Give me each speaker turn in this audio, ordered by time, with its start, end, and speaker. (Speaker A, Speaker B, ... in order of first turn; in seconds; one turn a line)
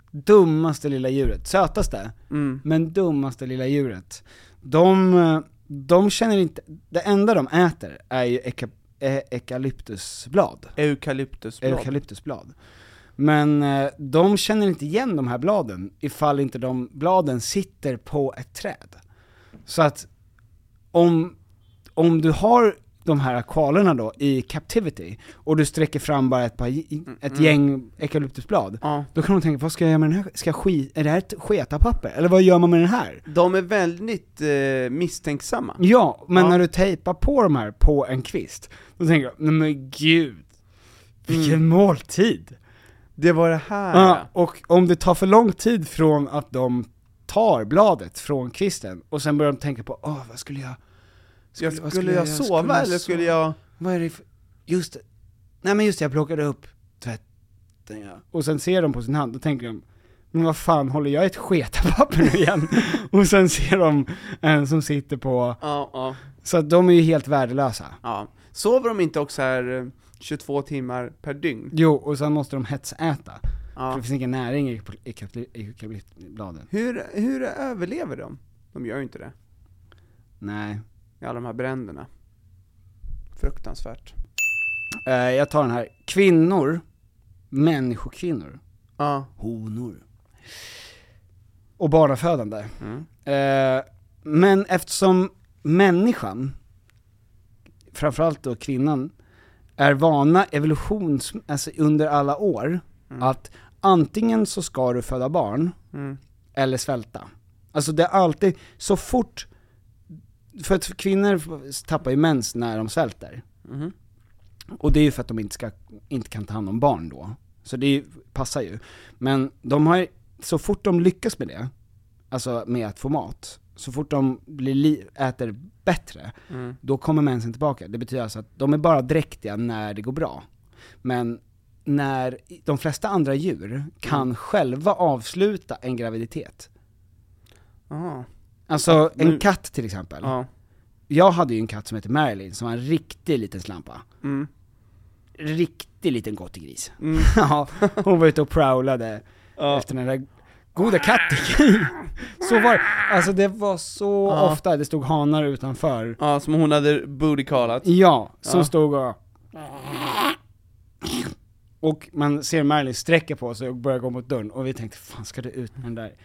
Speaker A: 0.1-10.7
Speaker B: 2.3-2.6
Speaker B: 10.8-11.9
Speaker A: 11.6-12.5
Speaker A: 13.2-19.0
Speaker A: 19.7-20.1
Speaker A: 20.9-21.4
Speaker A: 22.0-33.2
Speaker B: 27.2-27.6
Speaker B: 28.8-29.1
Speaker B: 33.3-35.8
Speaker A: 35.8-40.5
Speaker B: 36.3-36.6
Speaker A: 41.3-42.6
Speaker B: 41.3-41.6
Speaker B: 43.2-44.3
Speaker A: 43.9-50.8
Speaker A: 51.5-55.0
Speaker B: 51.6-53.6
Speaker A: 55.6-57.2
Speaker A: 57.9-65.6
Speaker B: 65.6-66.2
Speaker A: 66.4-68.0
Speaker B: 68.0-71.7
Speaker A: 71.7-76.7
Speaker B: 73.8-74.0
Speaker B: 76.7-79.3
Speaker A: 80.4-80.8
Speaker B: 81.2-82.1
Speaker B: 83.4-84.2
Speaker A: 85.0-86.8
Speaker A: 87.5-88.6
Speaker B: 89.0-89.3
Speaker A: 89.4-90.0
Speaker A: 91.8-96.6
Speaker B: 92.8-93.1
Speaker A: 97.9-99.1
Speaker A: 99.8-105.8
Speaker B: 105.9-106.2
Speaker A: 106.5-109.5
Speaker A: 110.5-113.4
Speaker B: 113.7-113.9
Speaker A: 114.8-121.7
Speaker A: 122.3-130.4
Speaker B: 126.5-126.8
Speaker A: 131.0-136.7
Speaker B: 137.9-138.3
Speaker A: 138.7-140.3
Speaker B: 138.9-139.4
Speaker B: 140.2-140.5
Speaker A: 141.1-144.0
Speaker B: 144.2-144.5
Speaker A: 145.4-156.2
Speaker B: 147.0-148.0
Speaker B: 149.6-149.9
Speaker B: 154.3-154.6
Speaker B: 156.2-157.9
Speaker A: 157.8-160.4
Speaker B: 158.4-158.7
Speaker A: 161.0-166.2